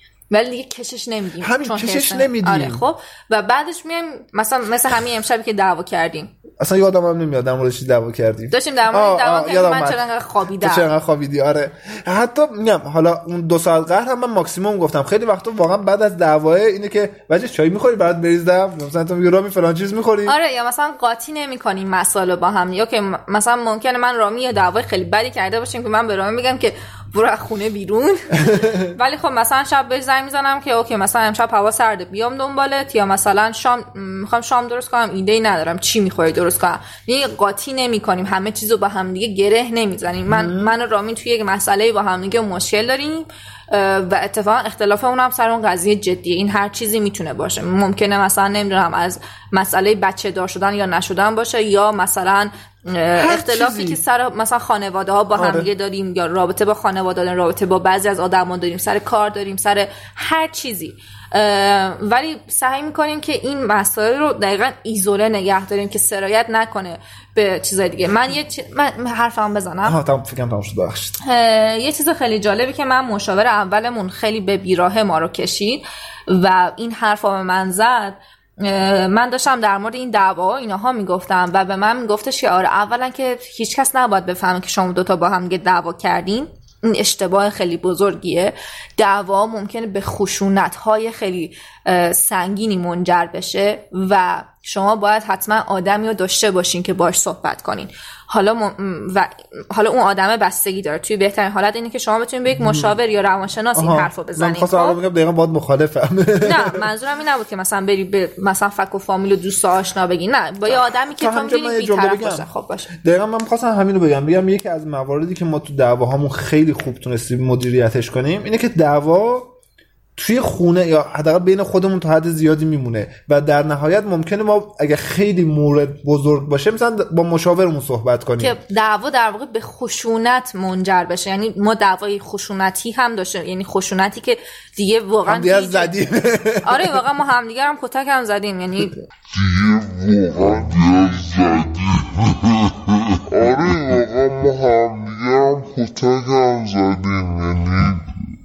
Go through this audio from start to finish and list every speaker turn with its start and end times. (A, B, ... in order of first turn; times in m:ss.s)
0:00.3-0:06.3 A
0:01.4-0:02.8 B
0:06.6-0:10.0 B
0:08.5-0:10.9 A
0:10.6-0:20.4 B
0:20.3-1:10.0 A
0:40.3-0:40.7 B
0:53.2-0:54.0 B
0:55.4-0:55.7 B
1:09.8-1:11.2 B
1:11.2-1:45.0 A
1:42.6-1:42.9 B
1:43.7-1:46.8 B
1:46.4-1:52.9 A
1:51.2-1:59.5 B
2:00.2-2:08.6 B
2:08.4-2:15.9 A
2:15.3-2:17.0 B
2:16.6-2:19.0 A
2:19.3-2:28.1 C